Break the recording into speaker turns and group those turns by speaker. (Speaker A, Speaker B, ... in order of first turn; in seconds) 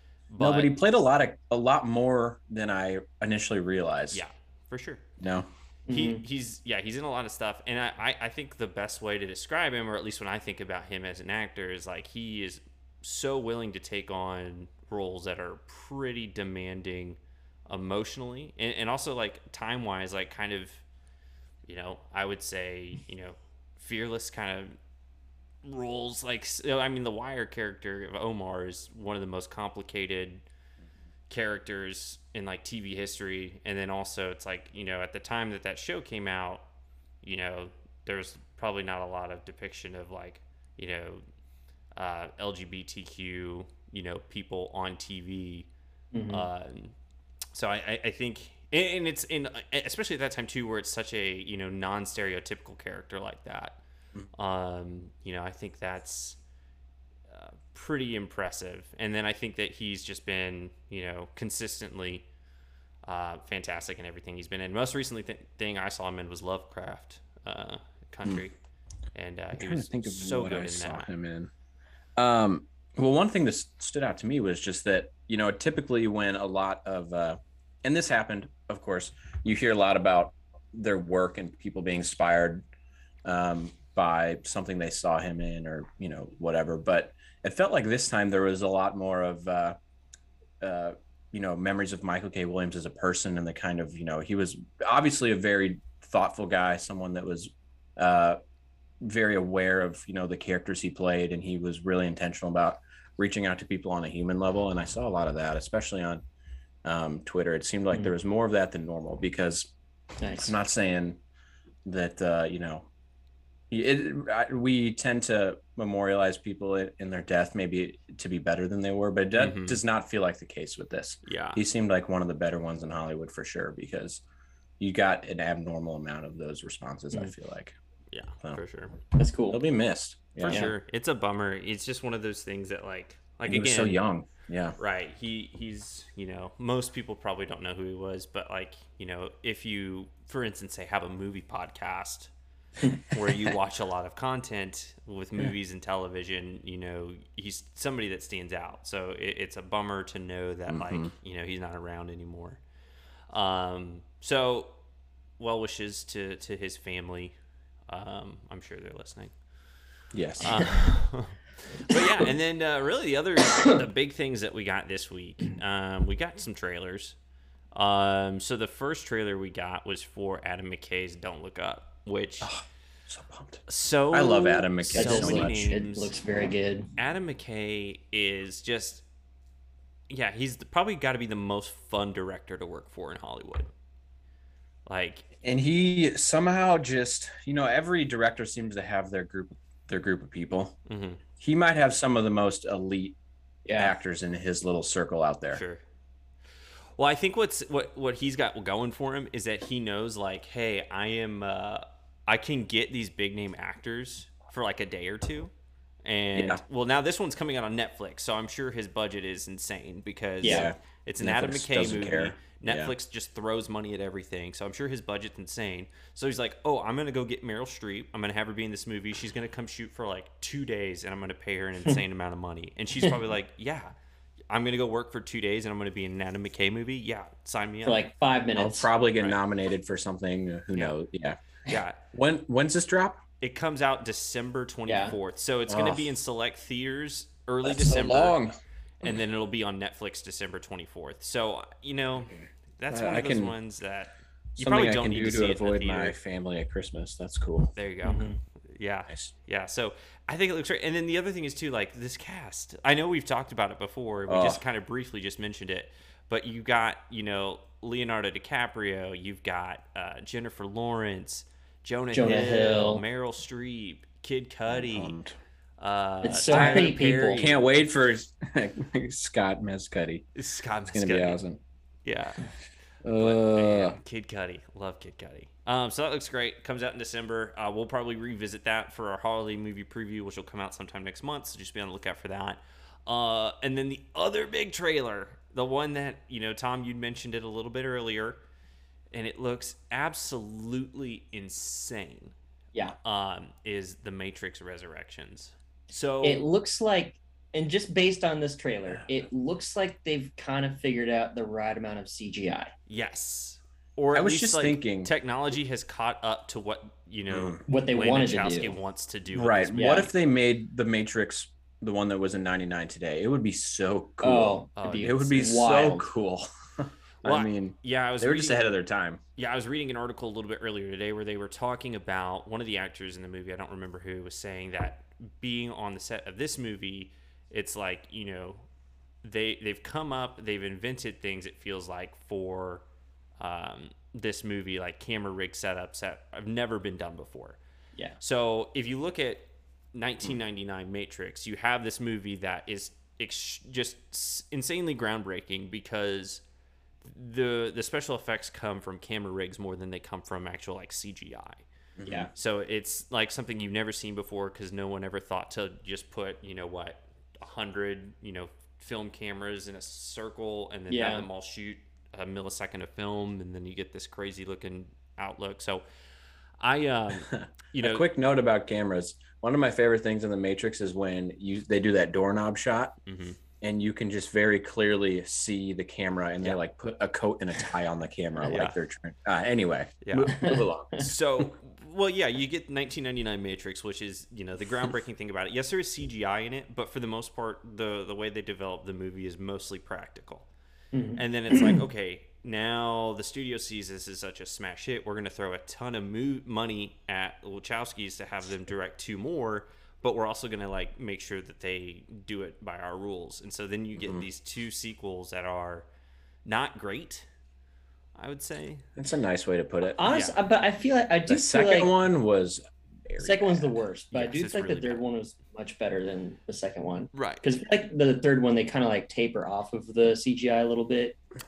Speaker A: 0.3-0.7, 4.1-5.0, 5.9-20.8, 21.6-24.8, 25.6-30.4, 31.3-36.6, 37.2-41.2, 41.9-45.7, 46.3-46.9, 47.5-53.8, 54.3-56.4, 57.3-62.2, 63.0-68.5, 69.1-71.1, 119.4-119.8, 121.2-121.6, 128.1-128.9, 130.4-134.0, 134.8-142.3, 143.1-152.6, 153.3-154.8, 155.4-157.3, 157.9-159.3, 160.4-167.2, 167.7-172.5, 173.7-176.2, 177.0-179.0, 180.1-183.7, 184.8-185.2, 190.9-191.2, 195.5-195.8, 196.9-205.5, 206.0-223.9, 224.5-228.0, 229.1-229.4, 231.7-232.0, 233.4-238.4, 239.0-246.2, 247.8-265.1, 265.8-267.6, 270.3-271.4, 272.0-272.5, 273.2-288.4, 289.1-292.3, 293.0-296.4, 302.9-310.1, 314.8-315.2, 317.2-318.7, 319.4-328.6, 329.2-332.8, 333.4-337.6, 338.2-346.4, 347.0-351.6, 352.3-365.8, 366.6-368.1, 373.1-373.4, 378.4-378.8, 380.0-390.5, 391.1-405.9, 406.4-407.3, 408.1-408.9, 410.0-410.4, 414.1-415.0, 417.1-417.5
Speaker B: 0.4-4.2, 5.2-5.5, 69.5-71.5, 72.2-82.6, 83.2-89.8, 90.6-98.4, 99.0-106.2, 106.8-109.7, 110.3-111.2, 111.8-112.9, 113.7-124.2, 124.8-127.7, 129.5-130.7, 133.4-134.8, 150.7-151.1, 160.1-160.8, 172.4-175.6, 185.4-190.8, 191.4-193.2, 193.8-195.6, 206.3-206.6, 210.4-212.9, 228.6-231.4, 232.1-233.2, 235.7-236.1, 237.6-238.6, 242.9-243.6, 244.6-247.7, 254.3-254.6, 264.7-265.3, 266.5-270.2, 270.9-271.6, 273.0-274.0, 304.1-305.1, 307.3-307.6, 309.3-319.2, 352.0-352.3, 367.3-372.9, 373.6-381.1, 404.0-404.2, 408.9-410.0, 411.3-413.7
Speaker C: 5.9-6.2, 46.1-46.5, 110.2-110.5, 129.2-129.6, 174.9-176.9, 193.6-193.9, 210.4-210.7, 227.8-228.9, 234.9-235.2, 248.0-248.3, 262.1-263.0, 266.2-267.5, 296.2-302.7, 307.7-308.8, 309.7-310.1, 314.2-316.1, 360.9-361.3, 390.9-391.8, 410.0-411.9, 413.2-421.2